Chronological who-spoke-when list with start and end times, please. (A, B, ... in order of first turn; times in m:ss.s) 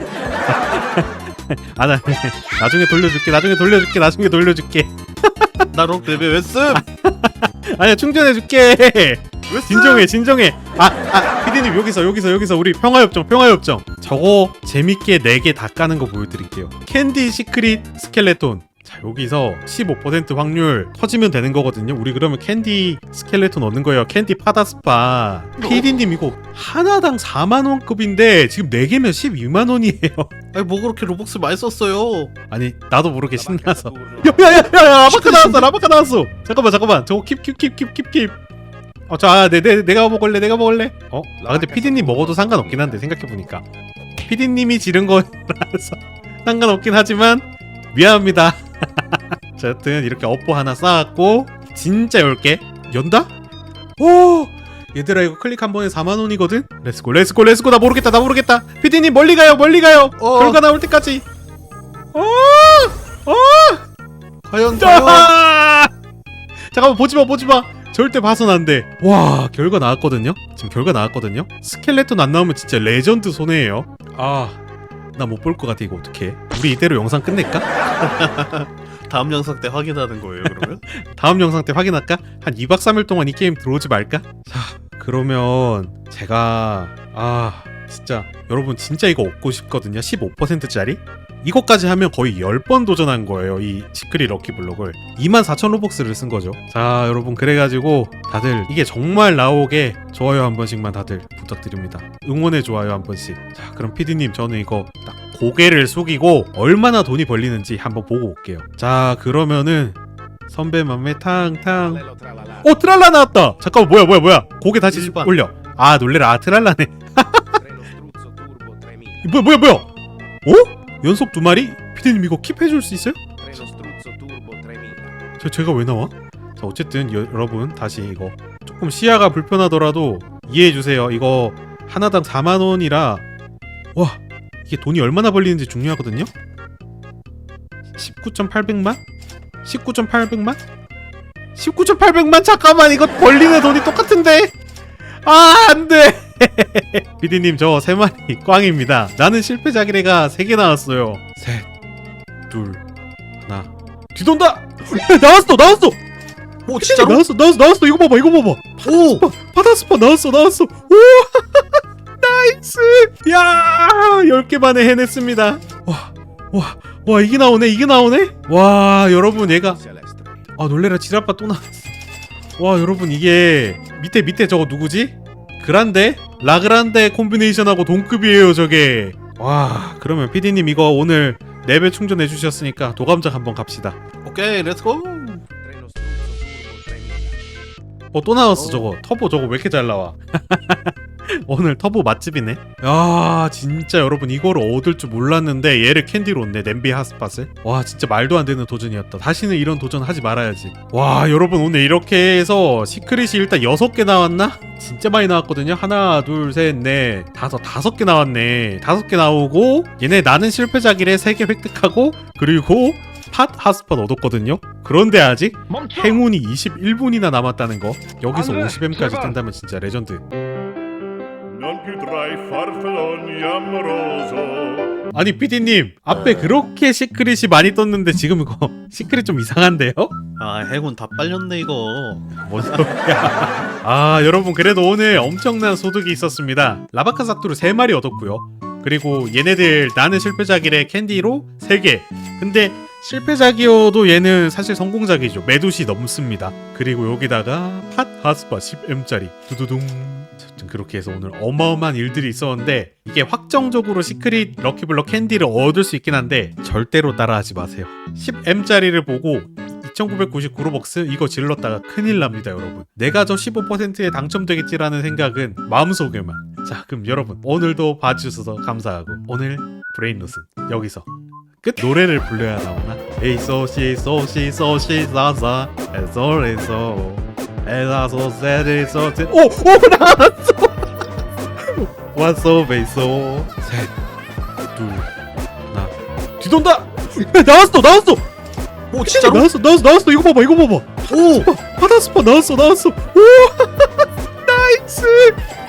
0:00.4-0:05.7 A
0:05.7-0:06.8 B
0:06.7-0:30.3 A
0:09.5-0:10.1 B
0:30.5-0:32.3 B
0:32.5-0:38.4 A
0:33.4-0:34.7 C
0:35.1-0:35.7 B
0:39.1-0:43.6 A
0:41.4-0:43.1 C
0:44.2-0:53.3 A
0:54.0-1:01.2 A
1:00.2-1:00.6 B
1:02.1-1:03.8 A
1:04.4-1:05.3 B
1:04.8-1:05.9 A
1:06.7-1:14.6 A
1:15.2-1:17.7 A
1:18.0-1:20.8 B
1:20.4-1:52.0 A
1:51.7-1:52.8 C
1:52.6-1:57.5 A
1:54.9-1:55.4 B
1:57.6-1:59.3 C
1:59.2-1:59.9 A
2:00.4-2:03.6 A
2:03.4-2:05.2 C
2:05.4-2:13.2 A
2:14.0-2:16.3 A
2:18.0-2:19.0 A
2:19.6-2:20.6 A
2:21.6-2:24.5 A
2:25.2-2:31.7 A
2:32.5-2:32.8 A
2:33.4-2:36.0 A
2:36.7-2:37.2 B
2:36.8-2:49.8 A
2:38.8-2:39.2 B
2:49.3-2:50.5 C
2:50.6-2:51.8 A
2:52.6-3:04.0 A
3:04.2-3:05.4 B
3:05.6-3:07.4 C
3:08.1-3:40.2 A
3:35.7-3:36.2 D
3:38.3-3:39.4 D
3:41.5-3:45.0 D
3:45.1-3:50.1 A
3:50.4-3:52.9 B
3:52.4-4:31.1 A
4:31.6-4:40.8 A
4:41.6-4:43.9 A
4:44.8-4:45.1 A
4:45.7-4:48.2 A
4:48.9-4:49.5 B
4:49.0-4:55.4 A
4:51.1-4:51.5 B